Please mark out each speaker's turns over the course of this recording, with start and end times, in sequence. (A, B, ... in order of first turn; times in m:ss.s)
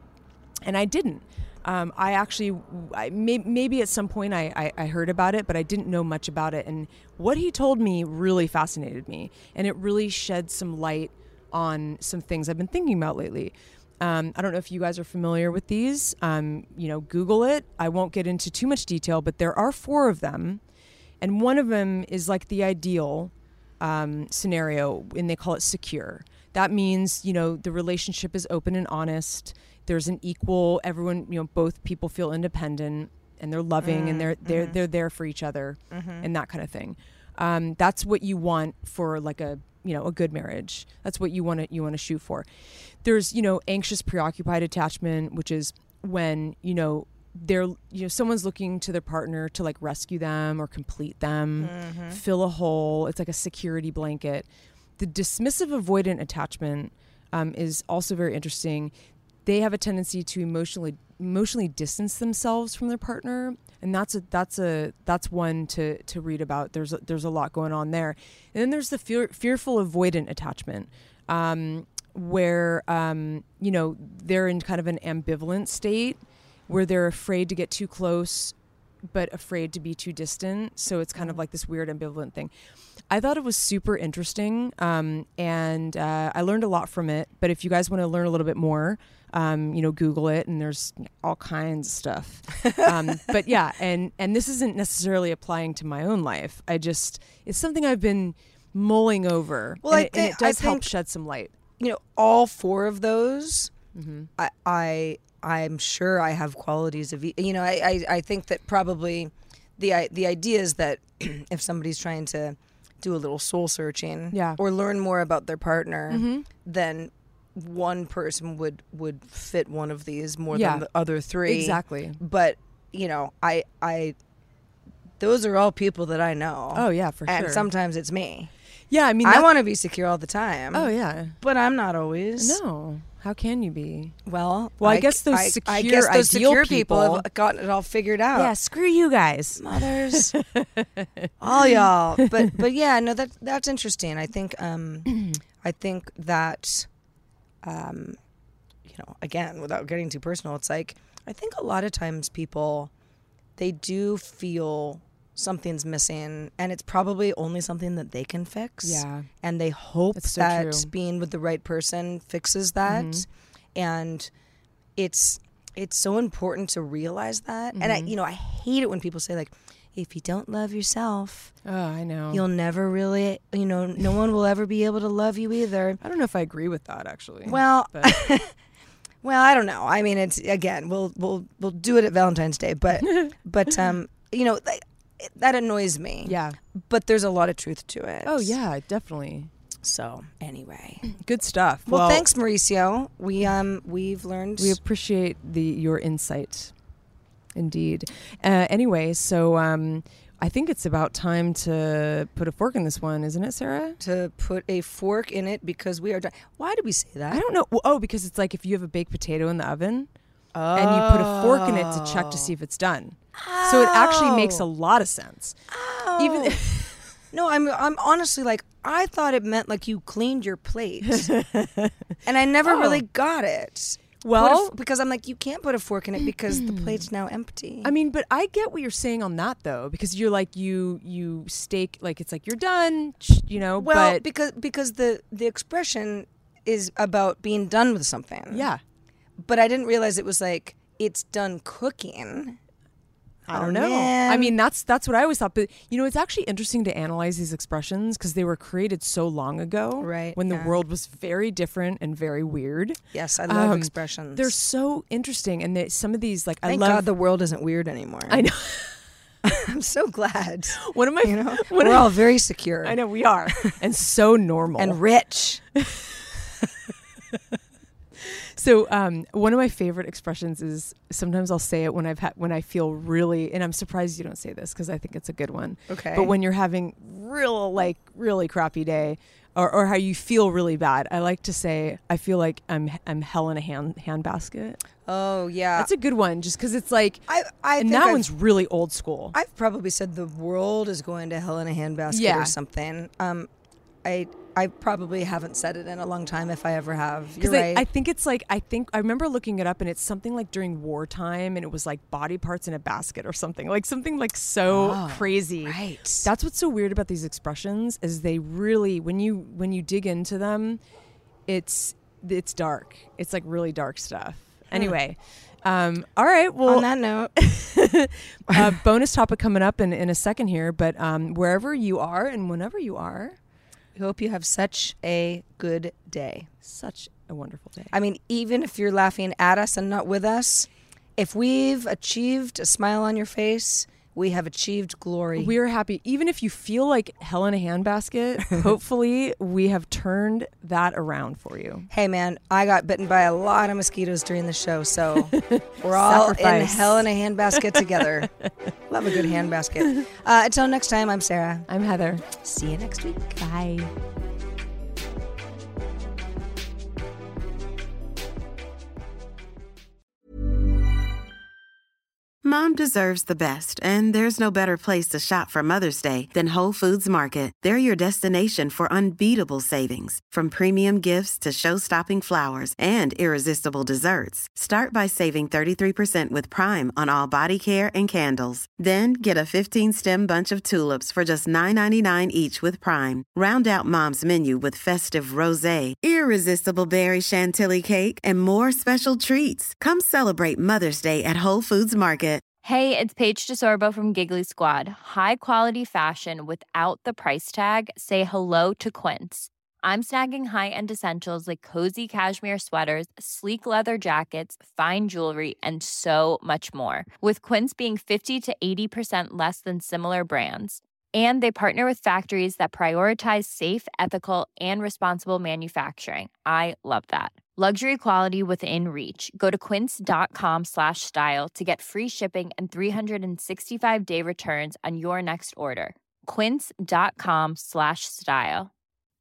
0:00.6-0:20.6 A
0:21.2-0:54.5 A
0:33.8-0:34.8 B
0:35.9-0:36.3 B
0:51.6-0:52.2 B
0:55.0-0:58.9 A
0:59.4-1:18.6 A
1:19.1-1:22.5 A
1:23.1-1:41.6 A
1:32.6-1:32.8 B
1:39.8-1:40.9 B
1:41.8-1:43.7 B
1:44.0-1:44.3 A
1:44.4-2:04.2 B
1:54.3-1:54.6 A
1:56.1-1:56.5 A
2:00.5-2:00.9 A
2:01.4-2:02.2 A
2:05.2-2:08.5 B
2:06.7-2:07.7 A
2:08.9-2:09.5 A
2:09.2-2:12.6 B
2:10.7-2:11.4 A
2:12.4-2:14.2 A
2:14.3-2:18.5 B
2:14.8-2:17.3 A
2:18.3-2:22.6 A
2:19.6-2:20.4 B
2:21.4-2:26.9 B
2:27.6-2:28.2 B
2:28.9-2:32.9 B
2:33.6-2:44.3 B
2:38.8-2:39.3 A
2:40.2-2:40.9 A
2:42.8-2:43.3 A
2:45.0-2:51.5 B
2:47.7-2:48.2 A
2:51.6-2:52.4 A
2:52.3-2:56.0 B
2:56.0-2:58.2 A
2:57.5-2:58.5 B
2:59.2-3:08.6 B
3:06.2-3:06.6 A
3:08.2-3:09.5 A
3:09.8-3:11.1 B
3:11.0-3:12.3 A
3:11.9-3:14.8 B
3:14.6-3:16.7 A
3:17.6-3:24.0 A
3:24.0-3:27.4 B
3:27.3-3:30.1 A
3:30.5-3:32.5 B
3:30.7-3:35.6 A
3:33.4-3:34.6 B
3:35.7-3:36.6 B
3:36.2-3:37.0 A
3:37.3-3:41.3 B
3:41.0-3:42.0 A
3:42.2-3:47.9 B
3:42.6-3:43.0 A
3:44.2-3:44.8 A
3:46.5-3:47.1 A
3:47.8-3:54.2 A
3:53.8-3:58.7 B
3:58.5-3:58.8 A
3:59.4-4:02.6 B
4:03.5-4:04.6 B
4:03.5-4:17.1 A
4:10.0-4:10.8 B
4:13.1-4:14.6 B
4:16.7-4:18.4 B
4:18.3-4:19.0 A
4:19.4-4:23.0 B
4:20.7-4:22.3 A
4:22.8-4:25.0 A
4:23.5-4:23.8 B
4:24.8-4:25.6 B
4:25.8-4:26.5 A
4:28.2-4:44.8 A
4:35.9-4:36.4 B
4:45.1-4:45.9 B
4:45.8-4:47.2 A
4:47.3-4:48.3 B
4:47.8-4:49.4 A
4:49.3-4:53.5 B
4:52.1-4:52.6 A
4:54.0-4:57.8 B
4:57.4-5:10.8 A
5:04.7-5:06.3 B
5:11.5-5:23.4 A
5:16.7-5:17.4 B
5:24.0-5:26.5 B
5:26.6-5:27.9 A
5:27.9-5:35.5 B
5:35.4-5:41.9 A
5:41.9-5:48.3 B
5:45.3-5:48.5 A
5:48.9-5:51.7 B
5:51.7-5:52.2 A
5:52.4-5:53.4 B
5:53.4-5:53.9 A
6:02.4-6:32.4 C
6:32.6-7:08.7 D